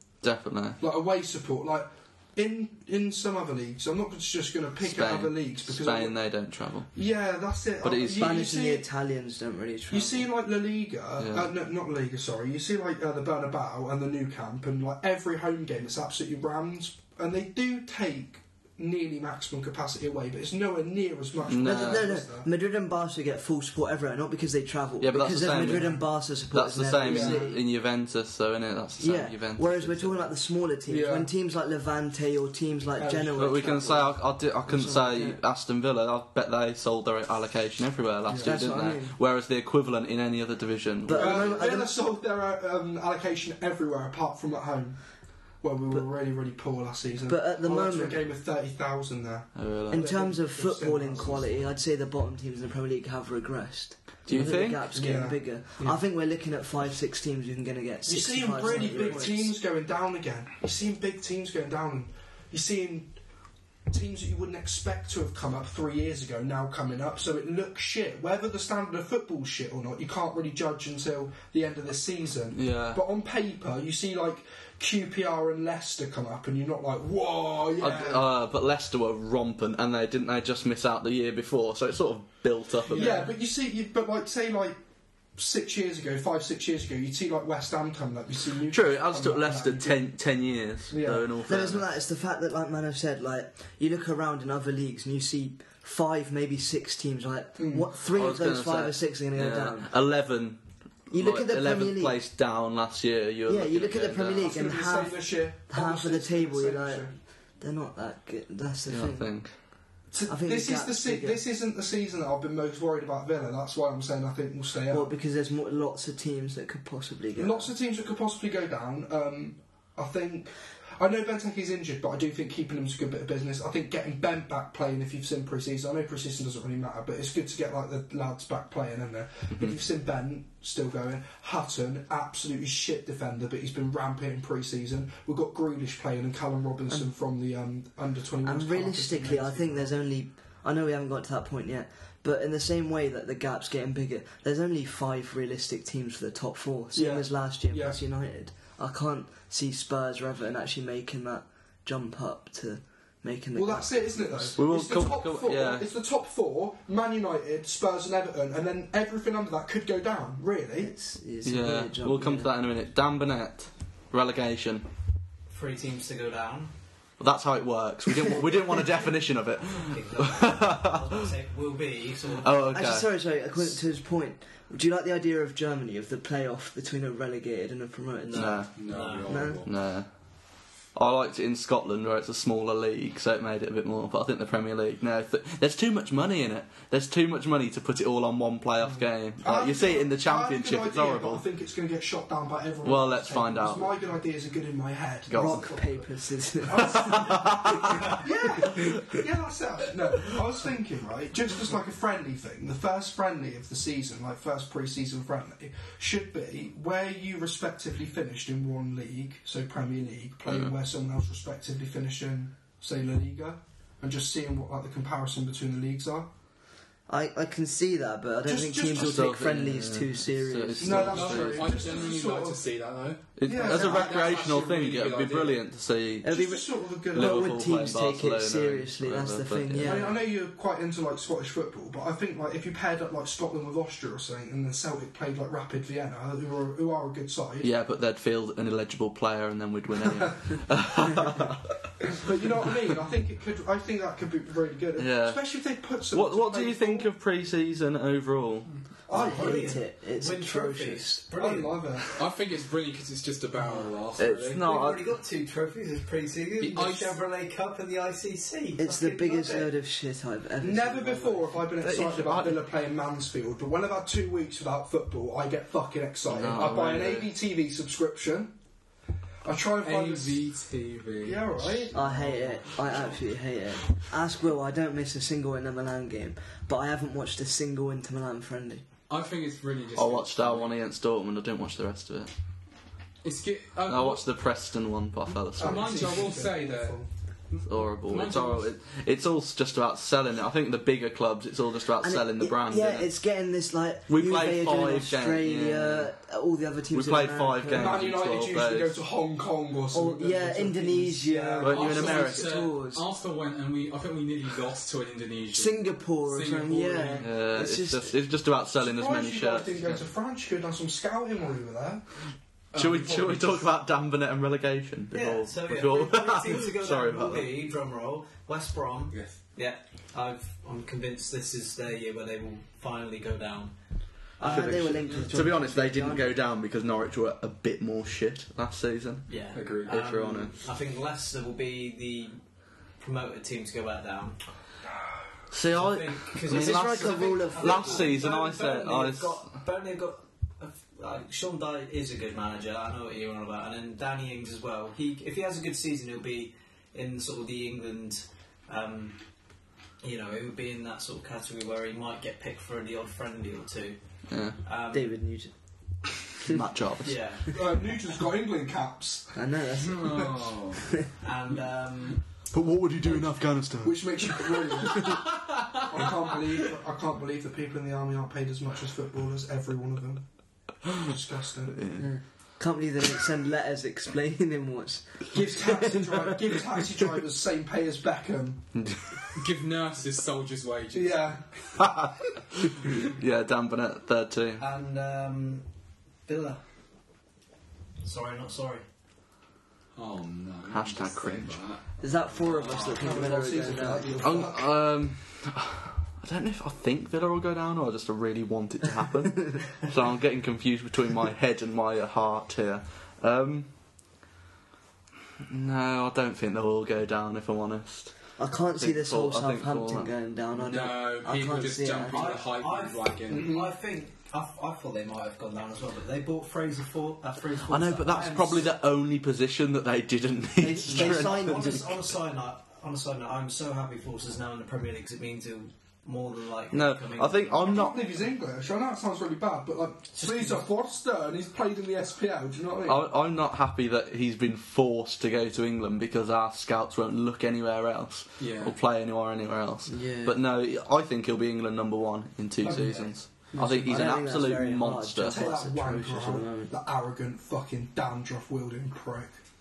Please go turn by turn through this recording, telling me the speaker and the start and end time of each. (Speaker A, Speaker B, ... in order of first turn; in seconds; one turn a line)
Speaker A: 0.2-0.8
Speaker B: 0.8-6.2
Speaker A: 4.8-6.9
Speaker B: 6.9-8.9
Speaker A: 7.8-8.4
Speaker C: 8.1-10.3
Speaker B: 9.9-22.5
Speaker A: 11.2-11.5
Speaker A: 21.5-22.1
Speaker C: 21.6-27.6
Speaker A: 25.0-30.3
Speaker B: 25.6-26.0
Speaker B: 27.0-27.5
Speaker C: 29.0-35.4
Speaker B: 30.9-31.3
Speaker B: 33.0-34.0
Speaker A: 33.4-41.6
Speaker B: 38.3-38.6
Speaker C: 38.4-39.1
Speaker C: 41.1-42.0
Speaker B: 41.1-45.0
Speaker B: 45.6-51.7
Speaker C: 47.3-48.2
Speaker A: 49.5-50.1
Speaker C: 49.9-59.5
Speaker A: 54.3-54.9
Speaker B: 54.9-56.0
Speaker B: 58.1-63.2
Speaker B: 63.9-78.3
Speaker A: 72.5-73.0
Speaker A: 77.8-83.2
Speaker B: 82.9-84.8
Speaker B: 85.4-90.1
Speaker A: 88.7-91.8
Speaker B: 90.9-91.3
Speaker C: 91.5-100.0
Speaker B: 97.6-97.9
Speaker A: 98.0-104.5
Speaker C: 101.1-102.2
Speaker C: 103.5-111.4
Speaker B: 104.4-107.2
Speaker A: 108.9-109.6
Speaker B: 110.1-115.1
Speaker C: 114.9-117.7
Speaker B: 117.4-140.0
Speaker C: 138.4-154.6
Speaker B: 146.9-148.0
Speaker B: 153.5-160.9
Speaker A: 154.6-155.9
Speaker C: 160.8-162.5
Speaker A: 161.4-164.9
Speaker D: 165.5-166.7
Speaker A: 167.2-171.2
Speaker D: 169.7-172.7
Speaker A: 172.4-173.2
Speaker C: 172.7-178.6
Speaker D: 178.2-179.6
Speaker A: 178.3-178.7
Speaker E: 178.7-179.7
Speaker C: 179.3-179.6
Speaker A: 179.6-180.1
Speaker A: 180.9-191.4
Speaker B: 188.8-196.0
Speaker A: 192.8-193.9
Speaker A: 195.3-195.8
Speaker C: 195.3-199.1
Speaker B: 196.6-216.3
Speaker A: 196.8-198.0
Speaker A: 210.5-210.7
Speaker C: 217.1-221.2
Speaker B: 218.4-219.5
Speaker A: 218.9-221.8
Speaker B: 220.8-222.6
Speaker E: 221.1-225.6
Speaker A: 223.4-226.4
Speaker B: 223.4-224.5
Speaker C: 226.2-230.2
Speaker B: 226.3-227.7
Speaker A: 227.1-230.1
Speaker B: 229.8-237.7
Speaker A: 237.6-241.7
Speaker B: 240.0-240.6
Speaker B: 242.1-247.1
Speaker A: 245.0-245.4
Speaker A: 246.1-248.7
Speaker B: 249.1-249.8
Speaker C: 249.1-251.2
Speaker D: 249.1-252.0
Speaker B: 251.4-252.2
Speaker E: 252.2-254.6
Speaker A: 254.2-255.1
Speaker D: 254.6-259.7
Speaker E: 256.6-257.2
Speaker C: 258.8-261.6
Speaker B: 260.6-268.5
Speaker A: 261.8-262.6
Speaker A: 266.3-267.3
Speaker B: 269.4-270.4
Speaker E: 269.8-271.8
Speaker B: 271.2-272.6
Speaker C: 271.9-278.9
Speaker E: 279.1-280.8
Speaker A: 280.0-282.3
Speaker E: 283.2-284.3
Speaker A: 283.9-286.3
Speaker B: 285.6-287.1
Speaker E: 285.6-288.7
Speaker A: 287.6-293.1
Speaker C: 292.0-298.0
Speaker A: 294.1-296.1
Speaker A: 296.9-299.0
Speaker B: 297.7-302.0
Speaker C: 299.9-303.0
Speaker A: 301.6-302.5
Speaker E: 301.6-307.3
Speaker C: 305.5-308.1
Speaker A: 307.2-310.0
Speaker B: 308.8-312.1
Speaker E: 312.7-313.7
Speaker A: 312.7-317.5
Speaker D: 315.1-323.8
Speaker E: 319.1-319.4
Speaker D: 324.4-325.2
Speaker C: 324.4-326.4
Speaker A: 324.4-330.6
Speaker D: 329.3-332.4
Speaker E: 329.5-330.0
Speaker D: 333.0-334.4
Speaker A: 335.5-339.4
Speaker D: 335.7-349.2
Speaker C: 336.5-338.1
Speaker D: 350.0-354.0
Speaker A: 354.3-354.6
Speaker D: 354.6-355.2
Speaker C: 354.9-355.5
Speaker A: 356.4-357.2
Speaker D: 357.0-357.7
Speaker B: 357.5-359.4
Speaker C: 359.4-361.1
Speaker E: 359.8-360.9
Speaker B: 360.0-360.3
Speaker D: 361.2-362.2
Speaker A: 362.4-364.9
Speaker B: 363.8-365.2
Speaker B: 365.8-370.3
Speaker B: 370.9-371.9
Speaker A: 371.8-372.1
Speaker C: 372.0-377.1
Speaker B: 375.3-378.7
Speaker A: 378.8-379.0
Speaker E: 379.4-381.4
Speaker B: 380.9-381.5
Speaker A: 381.8-384.6
Speaker D: 384.6-385.7
Speaker D: 386.3-386.6
Speaker D: 388.0-388.8
Speaker E: 389.9-393.3
Speaker A: 390.7-391.6
Speaker C: 392.0-394.2
Speaker D: 392.3-393.2
Speaker B: 393.0-394.7
Speaker A: 394.2-403.7
Speaker A: 405.5-408.2
Speaker C: 408.4-412.4
Speaker A: 408.8-410.1
Speaker E: 410.6-413.6
Speaker D: 412.1-418.8
Speaker B: 413.3-413.7
Speaker A: 417.6-421.8
Speaker C: 420.6-422.0
Speaker D: 420.9-427.9
Speaker A: 426.7-428.0
Speaker B: 427.6-433.1
Speaker D: 430.1-430.6
Speaker A: 432.9-445.4
Speaker E: 438.4-438.8
Speaker C: 439.9-440.4
Speaker B: 442.6-444.1
Speaker C: 443.6-446.7
Speaker B: 445.3-449.4